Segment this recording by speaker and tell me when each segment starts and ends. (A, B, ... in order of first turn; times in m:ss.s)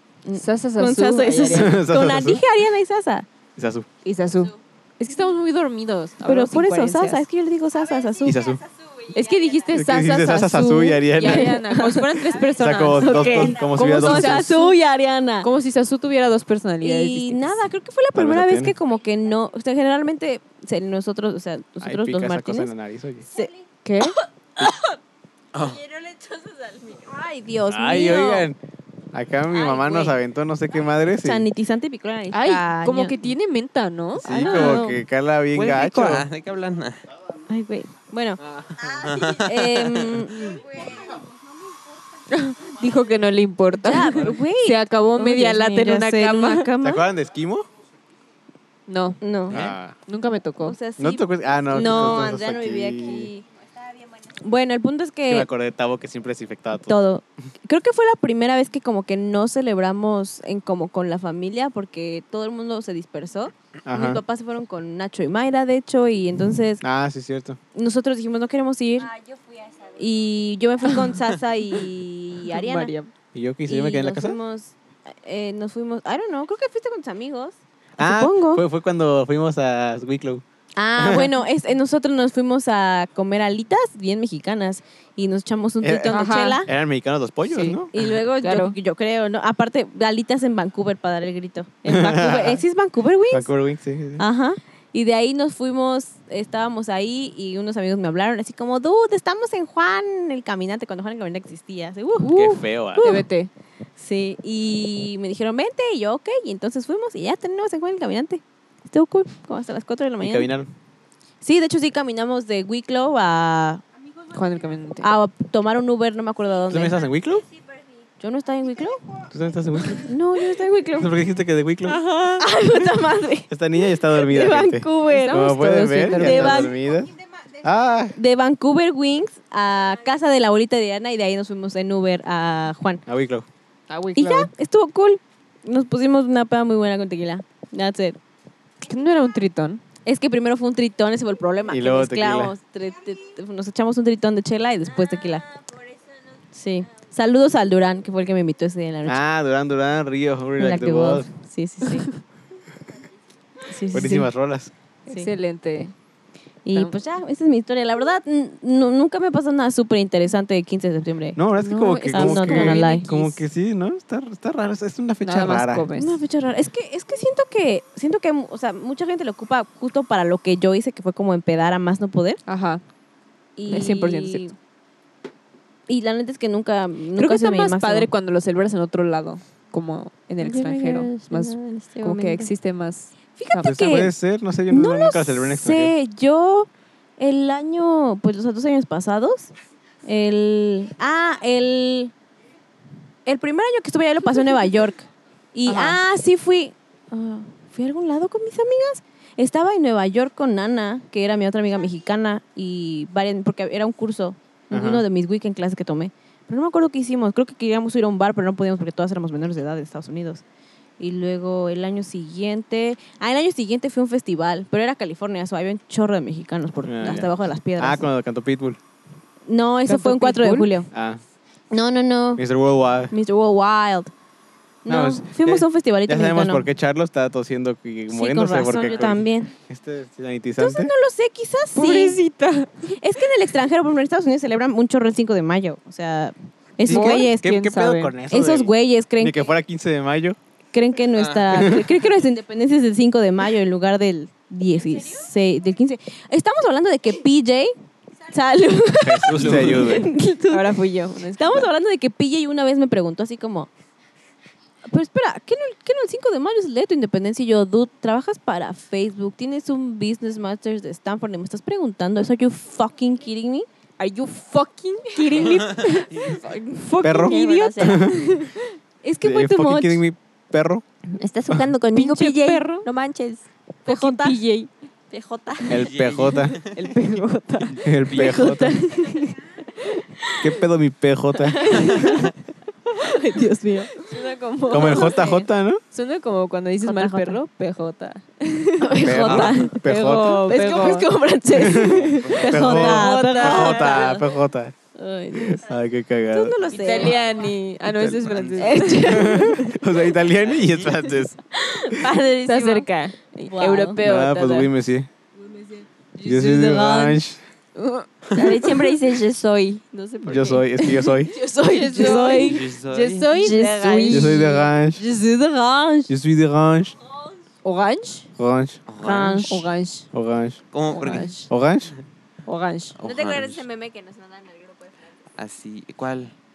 0:00.2-0:03.3 A
0:00.3-0:01.8 B
0:01.5-0:02.4 C
0:03.6-0:03.9 C
0:04.0-0:07.2 B
0:06.2-0:08.5 A
0:08.2-0:08.6 C
0:09.1-0:14.8 B
0:09.7-0:11.6 C
0:11.2-0:12.3 A
0:12.6-0:14.6 C
0:13.0-0:15.5 A
0:15.4-0:17.6 B
0:16.8-0:22.7 A
0:18.1-0:18.7 C
0:21.8-0:23.3 C
0:23.8-0:24.2 B
0:25.5-0:25.8 D
0:25.9-0:26.8 E
0:26.9-0:28.5 A
0:27.6-0:28.6 C
0:29.1-0:31.4 C
0:29.5-0:30.2 A
0:31.1-0:33.3 A
0:32.3-0:34.7 B
0:34.2-0:35.0 A
0:34.2-0:36.2 C
0:35.5-0:37.0 D
0:37.5-0:38.4 A
0:38.8-0:40.6 D
0:39.3-0:40.6 A
0:42.3-0:46.7 B
0:43.8-0:47.0 A
0:46.8-0:47.7 C
0:48.9-0:49.2 B
0:49.2-0:49.6 A
0:49.5-0:49.9 C
0:50.0-0:50.8 B
0:50.6-0:53.4 A
0:51.0-0:53.3 C
0:54.3-0:55.5 A
0:55.3-0:57.0 C
0:56.9-1:06.8 A
1:03.8-1:04.2 C
1:06.8-1:07.6 C
1:07.7-1:09.1 A
1:09.9-1:12.9 A
1:12.5-1:13.1 B
1:13.3-1:14.4 C
1:13.6-1:18.6 A
1:18.0-1:20.4 C
1:20.8-1:26.7 A
1:21.0-1:21.3 C
1:25.8-1:27.9 C
1:26.1-1:26.6 B
1:27.5-1:28.8 B
1:27.9-1:33.5 A
1:31.9-1:32.6 C
1:33.3-1:34.2 C
1:34.2-1:43.3 A
1:42.2-1:43.5 B
1:42.3-1:43.1 C
1:44.0-1:50.5 A
1:50.2-1:50.7 C
1:51.4-1:53.8 A
1:54.3-1:55.1 B
1:55.0-1:57.0 A
1:56.7-1:57.5 C
1:58.2-1:59.2 A
1:59.3-2:00.1 C
1:59.9-2:01.1 A
2:01.0-2:02.0 C
2:01.8-2:02.4 B
2:02.4-2:05.4 A
2:03.5-2:08.2 C
2:05.0-2:06.7 B
2:06.0-2:06.8 A
2:08.1-2:13.0 A
2:13.1-2:13.5 C
2:13.9-2:14.5 B
2:14.1-2:18.2 A
2:18.8-2:19.8 B
2:20.0-2:25.5 A
2:21.7-2:22.5 C
2:26.5-2:29.2 A
2:29.0-2:31.3 C
2:30.6-2:32.1 A
2:31.8-2:32.1 B
2:33.7-2:34.3 A
2:33.9-2:34.7 C
2:35.0-2:35.9 B
2:36.6-2:41.4 A
2:41.4-2:45.8 C
2:41.6-2:43.4 B
2:42.0-2:43.1 A
2:45.2-2:46.2 B
2:45.9-2:52.4 A
2:52.5-2:52.8 B
2:53.6-2:54.5 A
2:53.7-2:54.6 B
2:55.9-2:58.1 A
2:57.1-3:03.7 B
3:00.4-3:02.5 E
3:03.4-3:04.1 A
3:03.6-3:05.9 C
3:04.7-3:09.5 A
3:10.0-3:12.1 A
3:13.2-3:30.4 A
3:15.6-3:16.0 B
3:24.7-3:25.0 C
3:31.0-3:38.0 A
3:36.8-3:38.8 C
3:39.5-3:40.9 A
3:39.8-3:40.7 B
3:40.9-3:41.2 C
3:41.7-3:42.4 A
3:42.4-3:43.1 C
3:43.1-3:44.1 A
3:44.8-3:46.6 A
3:44.9-3:50.9 C
3:48.1-3:49.5 A
3:48.8-3:49.1 D
3:50.6-3:52.2 A
3:51.7-3:52.8 B
3:52.9-3:57.5 A
3:56.8-4:00.4 C
3:56.9-3:58.2 B
3:58.3-3:59.4 A
4:00.7-4:07.7 A
4:01.2-4:01.6 D
4:01.5-4:01.9 C
4:08.3-4:10.8 A
4:09.0-4:10.1 C
4:09.3-4:09.9 D
4:10.5-4:11.7 B
4:11.3-4:13.7 A
4:14.8-4:23.7 A
4:24.0-4:28.6 B
4:25.4-4:26.4 D
4:27.0-4:28.3 C
4:27.1-4:28.3 E
4:29.0-4:30.0 A
4:29.2-4:30.8 C
4:31.2-4:34.4 E
4:31.9-4:32.9 B
4:33.8-4:34.7 B
4:35.1-4:35.9 E
4:35.7-4:36.6 C
4:35.7-4:36.8 D
4:36.6-4:39.2 B
4:37.7-4:38.8 C
4:38.0-4:38.4 D
4:38.2-4:39.2 A
4:40.4-4:41.9 C
4:41.5-4:42.3 A
4:41.6-4:42.2 B
4:41.7-4:42.2 D
4:43.0-4:44.1 A
4:44.0-4:49.0 B
4:44.7-4:45.8 C
4:44.8-4:45.2 A
4:46.8-4:47.4 A
4:48.8-4:54.2 A
4:49.0-4:50.5 C
4:49.2-4:49.6 D
4:49.8-4:51.1 B
4:51.6-4:54.7 C
4:51.7-4:52.7 D
4:52.4-4:54.2 B
4:54.9-4:55.6 A
4:55.3-4:56.6 C
4:56.3-4:57.2 A
4:56.7-4:59.4 B
4:57.8-4:58.4 C
4:58.2-4:58.8 D
4:58.6-4:59.8 A
4:59.0-5:01.4 C
5:00.4-5:00.9 D
5:01.6-5:02.0 A
5:01.9-5:02.9 E
5:02.5-5:04.7 B
5:03.4-5:04.0 A
5:04.0-5:05.1 C
5:06.2-5:07.2 A
5:06.2-5:07.4 C
5:07.8-5:08.4 B
5:08.3-5:10.8 E
5:10.2-5:11.3 C
5:11.5-5:12.6 A
5:11.6-5:14.6 B
5:11.8-5:12.4 E
5:12.4-5:13.3 D
5:13.3-5:14.4 E
5:14.1-5:15.0 C
5:14.2-5:16.1 A
5:16.1-5:17.0 C
5:17.6-5:18.3 B
5:18.4-5:18.8 C
5:18.9-5:19.5 D
5:19.0-5:19.7 A
5:19.5-5:20.1 B
5:20.1-5:20.6 C
5:20.7-5:21.3 D
5:20.9-5:21.5 B
5:21.5-5:21.9 C
5:22.4-5:23.0 B
5:23.0-5:23.6 D
5:23.0-5:24.9 E
5:25.4-5:26.3 D